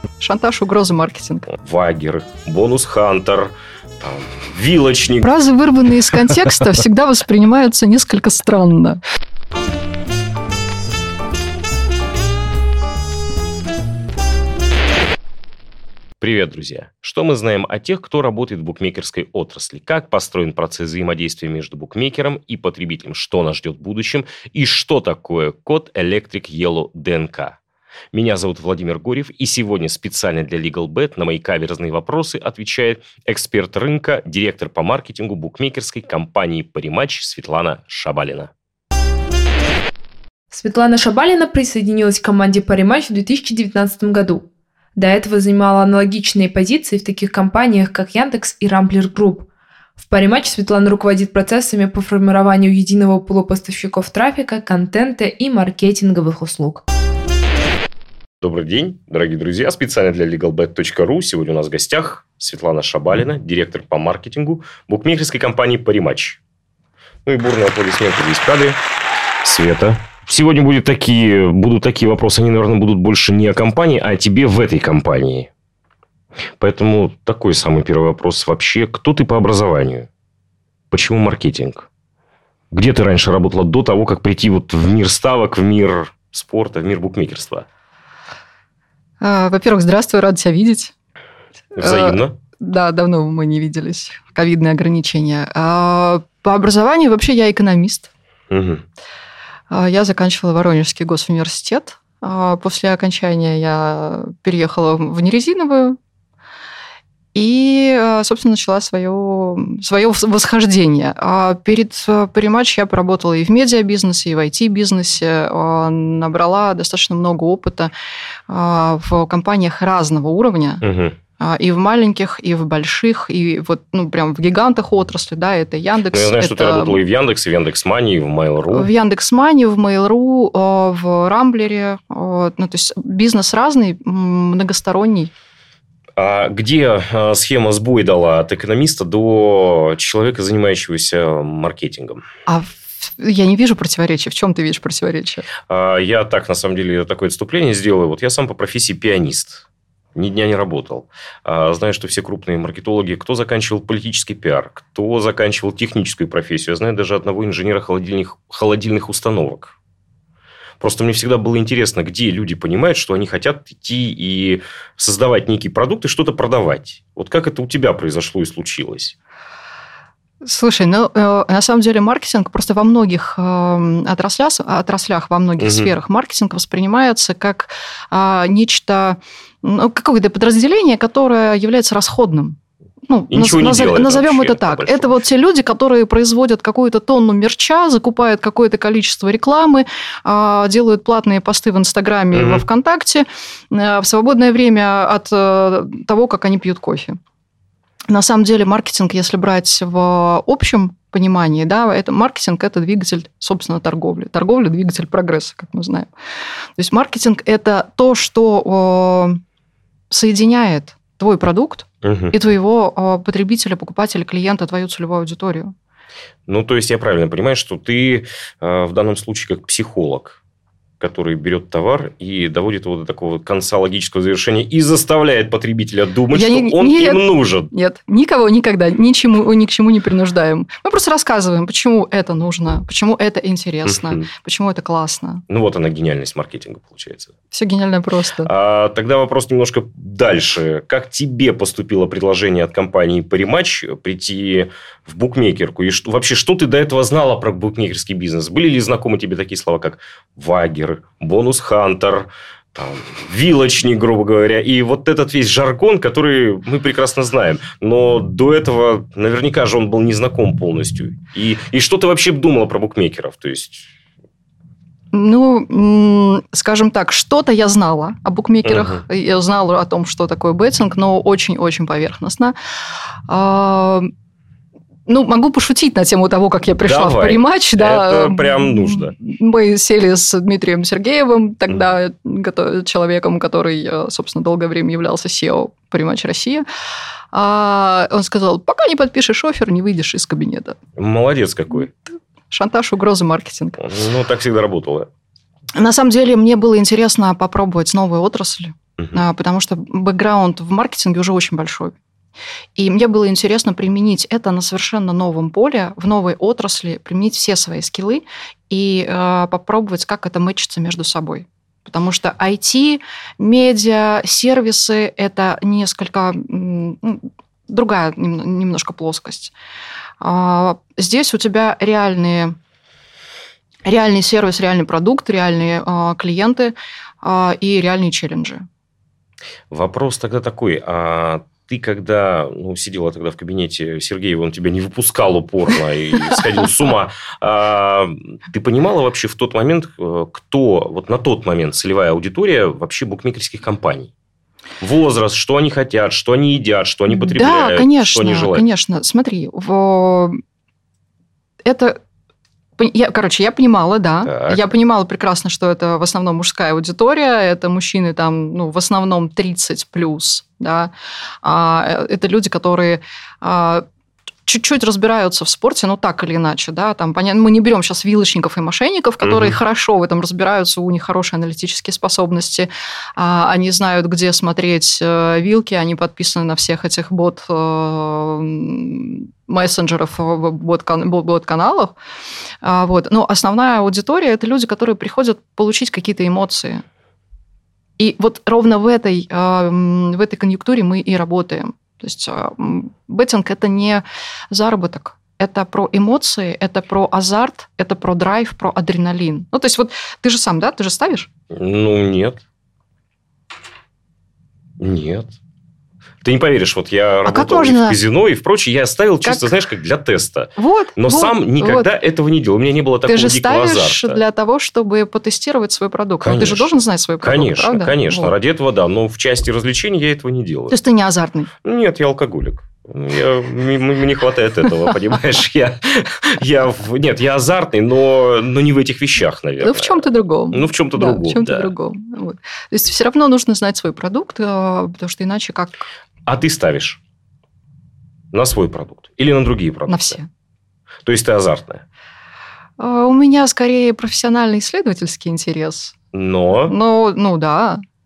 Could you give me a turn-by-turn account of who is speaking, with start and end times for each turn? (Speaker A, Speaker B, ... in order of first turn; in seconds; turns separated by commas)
Speaker A: 0.2-1.5, Speaker B: 1.5-5.3, Speaker A: 5.2-9.0, Speaker B: 16.2-27.6, Speaker B: 28.1-38.5, Speaker C: 40.5-49.5, Speaker C: 50.0-56.8, Speaker B: 58.4-66.4, Speaker B: 67.2-68.8, Speaker B: 69.4-75.5, Speaker B: 76.6-80.1, Speaker B: 80.9-81.9, Speaker B: 82.7-87.7, Speaker A: 89.2-90.9, Speaker A: 91.8-98.1, Speaker B: 91.8-92.3, Speaker B: 98.5-98.8, Speaker A: 99.7-106.0, Speaker A: 107.3-117.9, Speaker A: 118.5-120.8, Speaker B: 120.8-121.2, Speaker A: 121.4-127.0, Speaker B: 126.1-128.9, Speaker A: 128.7-135.3, Speaker B: 136.2-142.2, Speaker A: 142.4-145.5, Speaker B: 145.7-159.7, Speaker B: 160.8-169.1, Speaker A: 170.4-197.2, Speaker B: 175.6-175.9, Speaker B: 183.3-185.3, Speaker B: 192.3-192.6, Speaker A: 198.1-206.1, Speaker A: 206.8-209.4, Speaker A: 210.1-215.7, Speaker B: 212.0-212.3, Speaker B: 216.5-220.4, Speaker B: 221.0-227.7, Speaker A: 226.3-235.4, Speaker B: 233.8-234.2, Speaker B: 235.5-237.3, Speaker A: 237.5-238.5, Speaker B: 238.4-263.9, Speaker A: 265.1-272.5, Speaker B: 268.6-269.0, Speaker A: 273.3-274.1, Speaker A: 275.1-286.6, Speaker B: 276.8-279.1, Speaker A: 287.3-290.8, Speaker B: 290.9-291.9, Speaker A: 292.5-293.8, Speaker B: 293.8-295.1, Speaker A: 295.8-302.0, Speaker A: 302.8-319.5, Speaker A: 320.2-322.6, Speaker A: 323.8-328.6, Speaker B: 329.7-344.1, Speaker B: 344.8-348.6, Speaker A: 347.1-350.4, Speaker A: 351.6-352.0, Speaker A: 352.8-363.8, Speaker B: 354.2-354.7, Speaker A: 364.5-381.9, Speaker B: 369.2-369.6, Speaker A: 382.6-386.8, Speaker A: 388.0-401.3, Speaker B: 401.5-402.4, Speaker B: 404.8-405.4, Speaker B: 406.2-414.2, Speaker A: 407.2-408.0, Speaker A: 409.2-409.5, Speaker A: 410.6-411.9, Speaker A: 413.1-418.3, Speaker B: 416.2-420.8, Speaker A: 420.7-421.5, Speaker B: 421.6-431.7, Speaker A: 429.6-435.9, Speaker B: 436.2-437.0, Speaker B: 438.3-440.2, Speaker A: 439.9-440.3, Speaker B: 441.0-441.8, Speaker A: 442.8-445.9, Speaker B: 446.1-446.7, Speaker A: 446.7-447.8